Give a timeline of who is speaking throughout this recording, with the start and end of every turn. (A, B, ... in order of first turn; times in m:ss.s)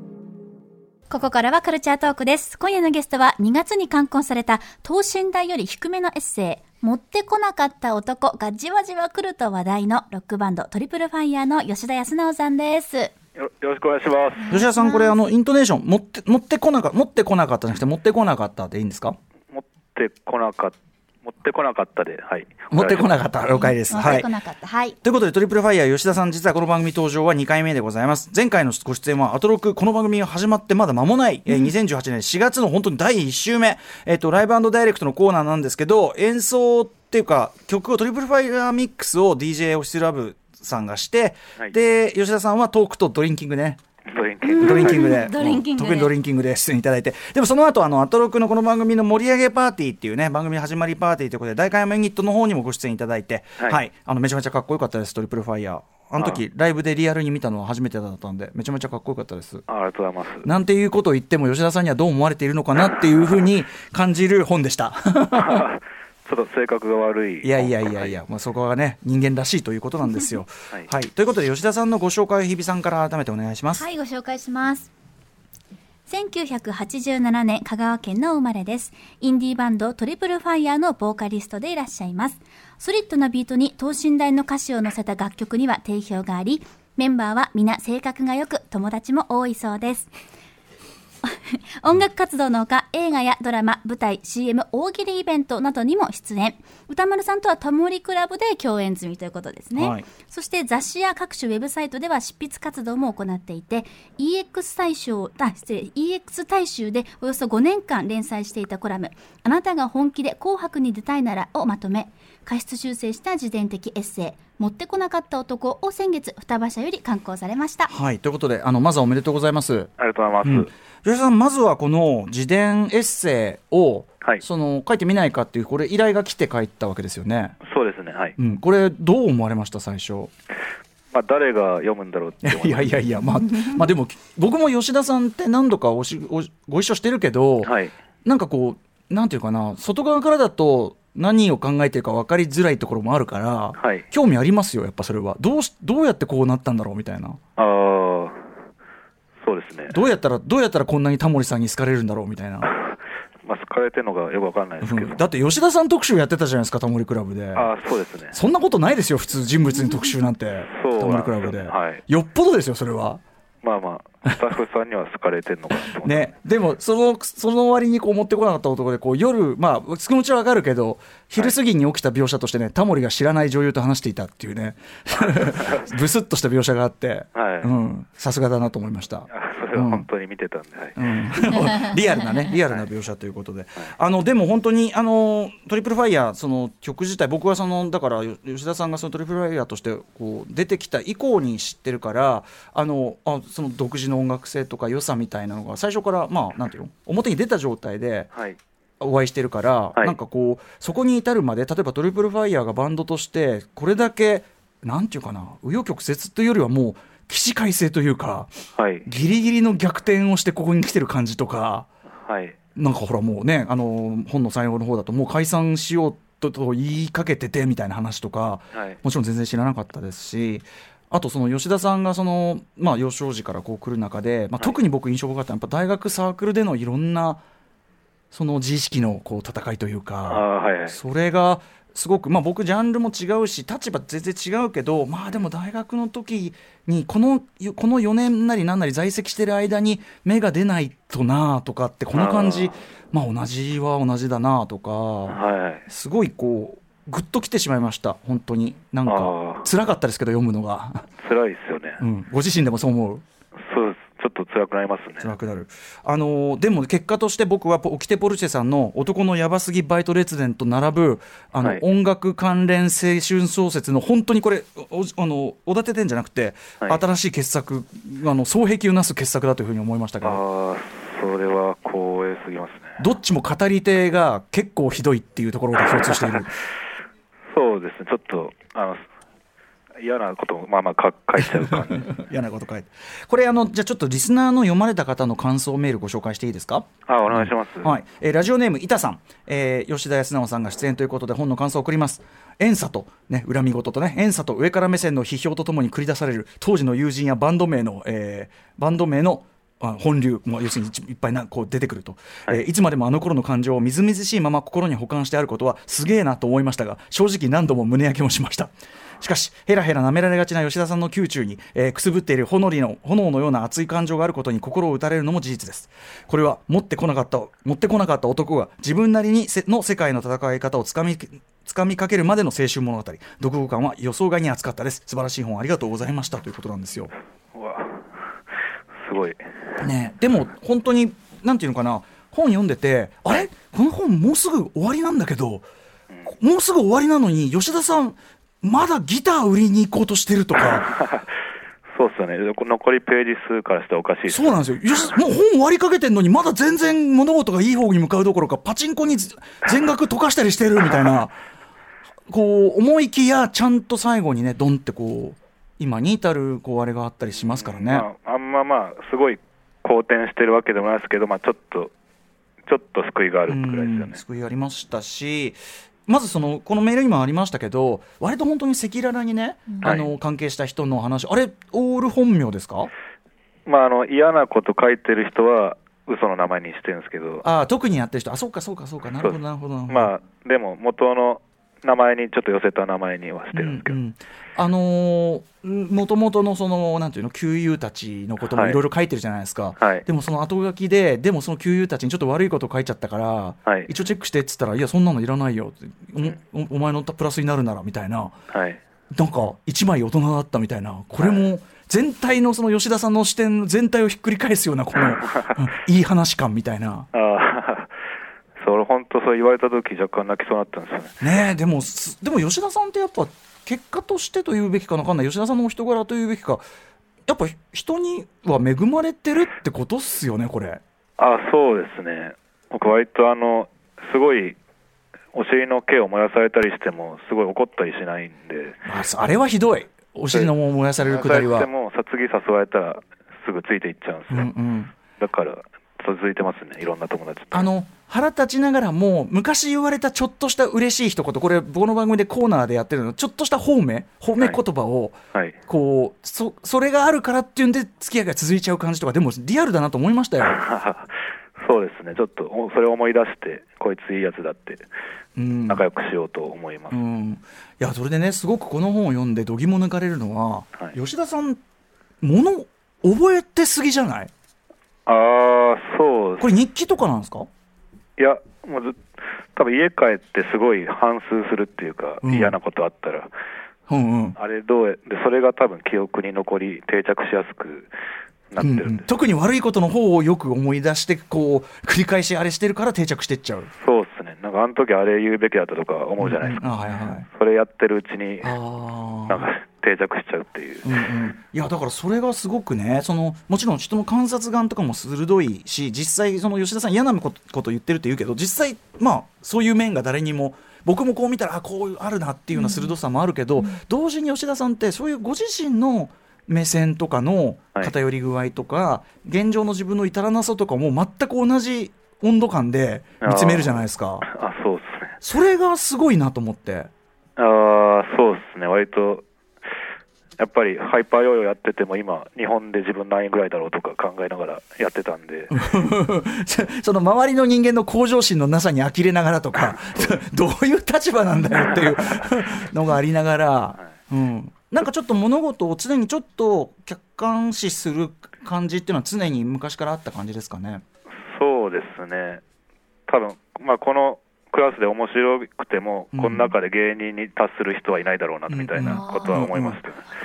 0:01.1-0:13.1 A
0:13.4-0:14.6 B
0:14.4-0:15.2 A
0:14.5-0:19.2 C
0:19.5-0:23.4 B
0:22.7-0:24.3 C
0:23.5-0:25.0 A
0:25.0-0:43.8 C
0:44.1-0:45.2 B
0:44.4-0:46.1 A
0:44.6-0:59.7 C
0:59.7-1:00.5 B
1:00.4-1:05.7 C
1:05.3-1:08.2 B
1:07.4-1:13.9 C
1:13.7-1:14.9 A
1:16.1-1:30.1 A
1:31.2-1:57.9 A
1:39.8-1:40.1 C
1:57.9-1:59.9 C
2:00.0-2:00.7 B
2:00.4-2:07.6 C
2:07.6-2:08.4 B
2:08.4-2:10.3 C
2:11.1-2:13.2 B
2:12.4-2:27.4 C
2:17.6-2:17.9 B
2:23.8-2:24.1 B
2:27.6-2:28.4 B
2:29.4-2:30.0 B
2:29.9-2:32.7 C
2:32.6-2:35.2 B
2:34.8-2:37.7 C
2:37.5-2:38.4 B
2:38.3-2:43.2 C
2:40.7-2:42.0 B
2:43.6-2:46.3 B
2:46.0-3:00.1 C
2:55.1-2:55.9 B
2:57.3-2:57.7 B
2:59.3-3:01.0 B
3:01.0-3:18.3 C
3:02.5-3:02.9 B
3:18.3-3:18.6 B
3:19.0-3:28.5 C
3:28.8-3:29.1 B
3:29.1-3:31.9 C
3:32.2-3:32.6 B
3:32.8-3:47.4 C
3:38.7-3:39.0 B
3:48.3-4:11.1 C
3:50.2-3:51.0 B
4:02.1-4:02.8 B
4:05.3-4:05.8 B
4:09.0-4:09.7 B
4:11.2-4:12.0 B
4:12.0-4:13.2 C
4:13.6-4:15.3 B
4:15.2-4:30.4 C
4:30.2-4:33.0 B
4:33.0-4:36.6 C
4:37.5-4:39.0 B
4:40.0-4:42.0 B
4:41.4-5:27.1 C
4:47.1-4:47.9 B
5:27.5-5:28.1 B
5:29.0-5:29.4 B
5:29.8-5:35.7 C
5:36.3-5:40.9 C
5:40.6-5:41.3 B
5:42.0-5:45.1 B
5:44.3-5:51.4 C
5:52.3-5:58.1 C
5:57.4-6:01.9 B
6:02.7-6:04.2 B
6:03.5-6:12.9 C
6:09.8-6:10.1 B
6:13.7-6:17.5 B
6:17.4-6:20.1 C
6:19.2-6:24.0 B
6:23.5-6:38.4 C
6:28.5-6:28.8 B
6:29.8-6:30.0 B
6:33.7-6:33.9 B
6:38.5-6:38.8 B
6:39.1-6:47.1 C
6:41.2-6:41.5 B
6:45.0-6:45.6 B
6:47.1-6:47.9 B
6:48.6-6:51.3 B
6:51.2-6:56.6 C
6:57.3-7:00.8 C
7:01.2-7:04.6 B
7:05.3-7:08.8 B
7:08.9-7:11.7 C
7:10.3-7:14.5 B
7:14.3-7:14.9 C
7:15.2-7:17.7 B
7:17.5-7:25.2 C
7:25.7-7:30.6 C
7:30.4-7:34.9 B
7:35.4-7:35.9 C
7:35.7-7:37.0 B
7:36.9-7:41.6 C
7:42.2-7:44.3 C
7:45.1-7:46.5 B
7:46.4-7:47.5 C
7:48.2-7:49.0 B
7:49.6-7:53.3 B
7:52.2-7:52.6 C
7:53.9-7:54.4 C
7:54.4-7:57.9 B
7:58.5-7:59.1 B
7:58.6-8:03.7 C
8:03.8-8:06.6 B
8:06.2-8:07.3 C
8:07.2-8:08.6 B
8:08.4-8:09.5 C
8:09.3-8:11.0 B
8:10.8-8:34.3 C
8:22.6-8:22.9 A
8:33.2-8:35.2 B
8:35.2-8:36.9 C
8:37.4-8:39.3 B
8:40.4-8:45.6 B
8:45.5-9:00.8 C
8:49.6-8:50.2 B
8:51.7-8:52.3 B
9:01.2-9:02.4 B
9:03.1-9:10.1 B
9:06.1-9:06.5 C
9:08.5-9:09.8 C
9:08.8-9:09.2 A